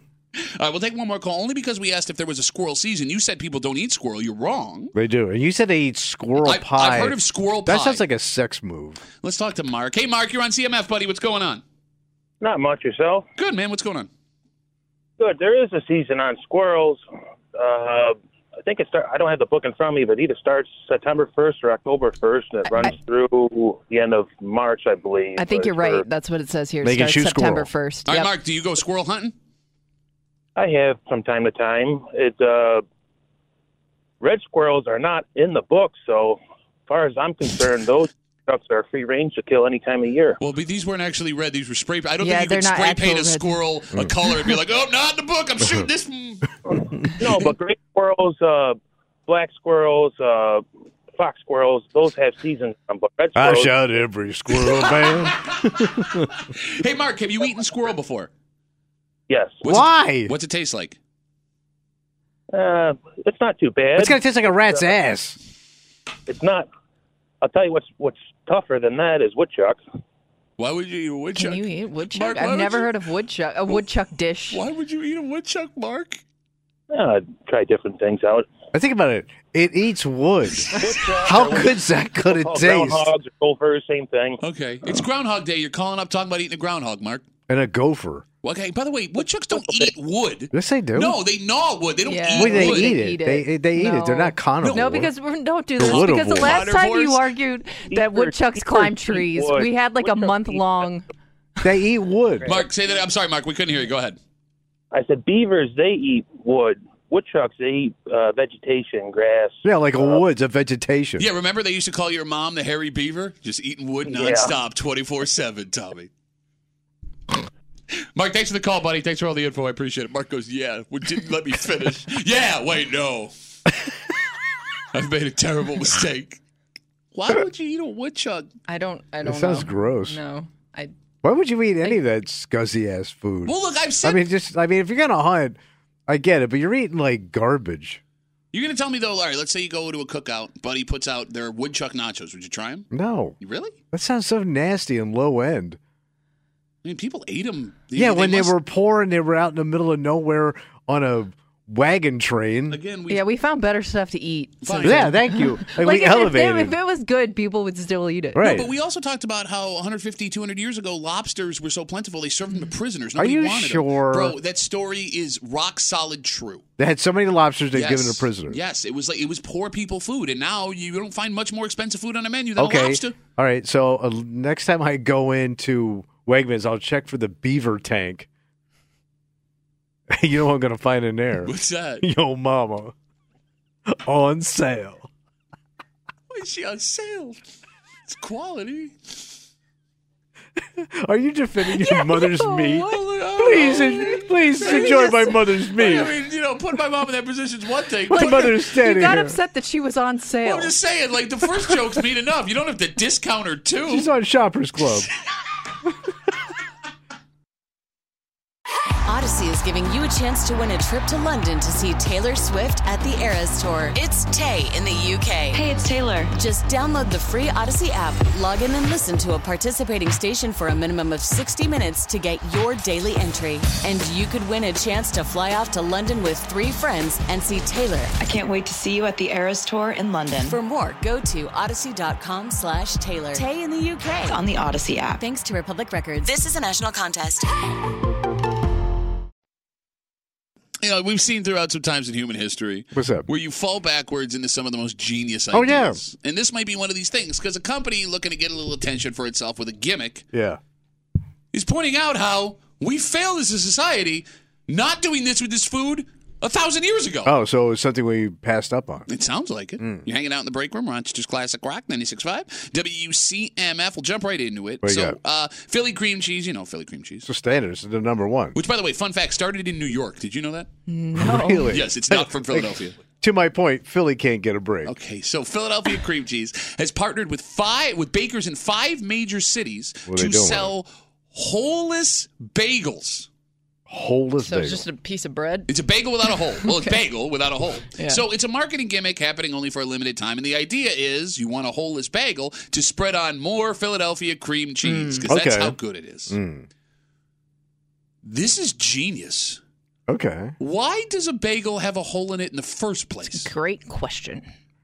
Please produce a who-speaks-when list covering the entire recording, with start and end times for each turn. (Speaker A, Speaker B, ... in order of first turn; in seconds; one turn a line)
Speaker A: 0.3-4.9
Speaker B: 4.9-9.0
Speaker A: 6.4-8.0
Speaker A: 9.2-11.6
Speaker C: 12.4-13.3
Speaker A: 13.4-14.1
Speaker C: 15.2-17.0
Speaker C: 17.6-26.0
Speaker D: 25.4-28.3
Speaker B: 26.8-27.7
Speaker A: 28.1-29.3
Speaker C: 30.6-32.8
Speaker C: 34.2-40.4
Speaker A: 40.4-46.5
Speaker D: 42.2-43.5
Speaker C: 47.2-50.6
Speaker C: 51.1-53.8
Speaker B: 53.4-56.4
Speaker A: 54.5-58.3
Speaker C: 59.3-59.6
Speaker A: 59.6-61.0
Speaker B: 59.6-60.3
Speaker C: 62.5-64.9
Speaker B: 64.0-65.4
Speaker C: 66.3-66.7
Speaker C: 67.4-69.8
Speaker A: 70.6-72.9
Speaker D: 71.3-74.6
Speaker A: 74.5-76.2
Speaker C: 76.9-78.5
Speaker B: 78.7-83.1
Speaker C: 80.8-84.4
Speaker A: 84.4-87.2
Speaker B: 87.5-88.2
Speaker A: 88.4-92.9
Speaker B: 90.5-91.2
Speaker D: 92.1-101.0
Speaker B: 92.3-95.1
Speaker B: 95.8-96.6
Speaker A: 95.8-97.2
Speaker C: 97.9-100.8
Speaker B: 101.6-102.5
Speaker A: 102.4-104.2
Speaker C: 104.9-110.2
Speaker B: 109.6-111.3
Speaker A: 111.2-116.1
Speaker C: 114.0-114.5
Speaker A: 118.1-123.3
Speaker A: 124.9-126.4
Speaker A: 127.1-128.5
Speaker D: 128.7-130.9
Speaker B: 129.2-130.2
Speaker B: 131.2-135.6
Speaker A: 133.4-134.2
Speaker B: 136.1-138.0
Speaker A: 138.5-142.9
Speaker B: 142.9-143.3
Speaker A: 143.4-143.8
Speaker B: 143.9-145.8
Speaker A: 146.8-148.5
Speaker B: 147.9-152.8
Speaker A: 152.7-153.2
Speaker D: 153.1-158.5
Speaker A: 154.6-155.2
Speaker B: 154.8-156.7
Speaker B: 158.3-158.7
Speaker A: 158.4-166.6
Speaker B: 163.2-164.3
Speaker B: 166.8-168.6
Speaker A: 167.7-173.2
Speaker B: 172.6-178.3
Speaker B: 180.1-182.9
Speaker A: 181.4-182.0
Speaker B: 183.9-185.0
Speaker A: 186.3-187.4
Speaker A: 188.1-188.9
Speaker B: 190.6-196.1
Speaker D: 191.9-192.8
Speaker A: 192.7-198.5
Speaker D: 194.6-195.4
Speaker B: 198.1-199.4
Speaker D: 198.1-200.7
Speaker A: 200.4-204.1
Speaker B: 203.9-205.1
Speaker E: 209.1-215.6
Speaker F: 215.5-216.3
Speaker E: 216.3-228.1
Speaker F: 228.2-230.6
Speaker E: 230.4-234.4
Speaker F: 234.3-235.2
Speaker E: 235.2-237.5
Speaker A: 240.8-250.2
Speaker B: 242.9-243.3
Speaker B: 245.5-246.0
Speaker B: 250.3-250.6
Speaker A: 251.5-257.3
Speaker B: 257.2-259.1
Speaker A: 259.1-267.3
Speaker B: 259.8-260.0
Speaker B: 264.8-265.2
Speaker B: 267.2-268.6
Speaker A: 268.5-270.7
Speaker D: 270.9-271.7
Speaker B: 271.1-274.9
Speaker A: 271.7-273.0
Speaker A: 274.8-283.3
Speaker B: 280.1-280.7
Speaker B: 283.9-284.8
Speaker D: 284.4-285.7
Speaker A: 285.7-296.4
Speaker D: 286.6-286.9
Speaker D: 287.9-288.2
Speaker D: 294.8-295.3
Speaker B: 295.3-295.8
Speaker B: 296.3-296.7
Speaker A: 298.2-299.6
Speaker B: 300.1-300.5
Speaker A: 300.6-303.5
Speaker D: 303.3-304.5